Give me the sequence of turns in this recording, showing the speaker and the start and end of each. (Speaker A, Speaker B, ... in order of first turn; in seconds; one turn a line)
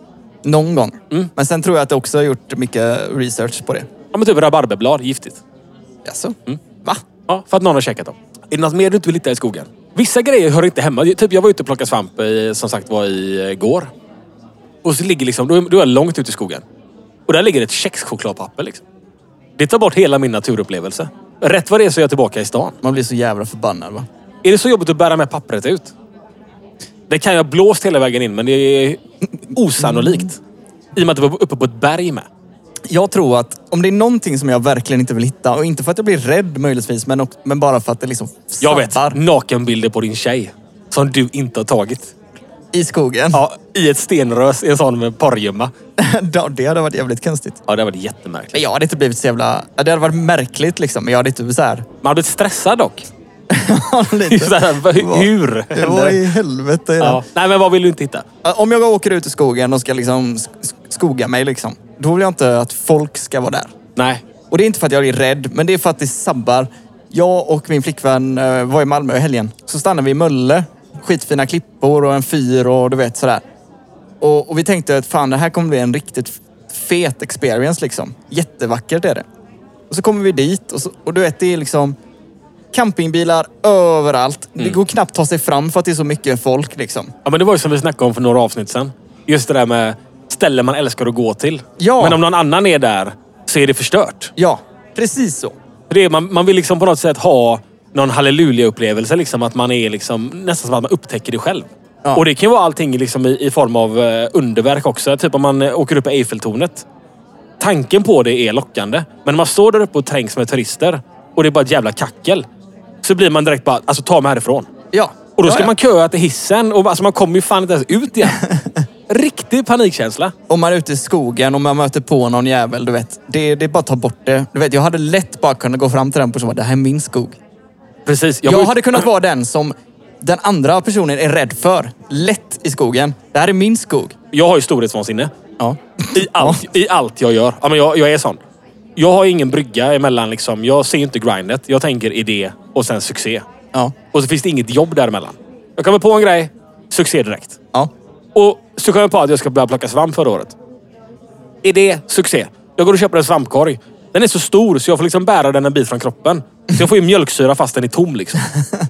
Speaker A: 0.4-3.9
Speaker B: 4.1-5.4
Speaker A: 6.0-7.0
Speaker B: 7.3-13.9
Speaker B: 14.8-16.6
Speaker B: 17.3-18.8
Speaker B: 19.6-22.8
Speaker A: 22.8-24.1
Speaker B: 24.4-25.9
Speaker B: 27.1-30.4
Speaker A: 29.8-30.2
Speaker B: 30.9-32.3
Speaker A: 32.9-39.2
Speaker B: 38.6-42.1
Speaker A: 42.7-43.4
Speaker B: 43.3-45.7
Speaker A: 46.0-47.6
Speaker B: 47.7-48.6
Speaker A: 48.5-51.9
Speaker B: 52.0-53.1
Speaker A: 53.5-57.2
Speaker B: 54.3-56.3
Speaker B: 57.0-58.2
Speaker A: 58.4-63.7
Speaker B: 64.0-64.2
Speaker A: 64.5-73.4
Speaker A: 74.2-79.2
Speaker A: 79.9-82.0
Speaker A: 82.7-87.1
Speaker B: 87.2-94.3
Speaker A: 91.8-92.2
Speaker A: 94.4-95.5
Speaker B: 95.9-106.9
Speaker B: 107.6-112.5
Speaker B: 113.0-114.7
Speaker A: 114.9-115.7
Speaker B: 115.4-118.4
Speaker B: 119.1-120.3
Speaker A: 120.5-127.4
Speaker B: 128.1-129.1
Speaker A: 128.4-134.2
Speaker B: 134.3-135.3
Speaker A: 135.6-136.6
Speaker B: 136.1-138.4
Speaker B: 139.0-143.4
Speaker B: 144.1-147.6
Speaker B: 148.3-150.6
Speaker B: 151.6-158.5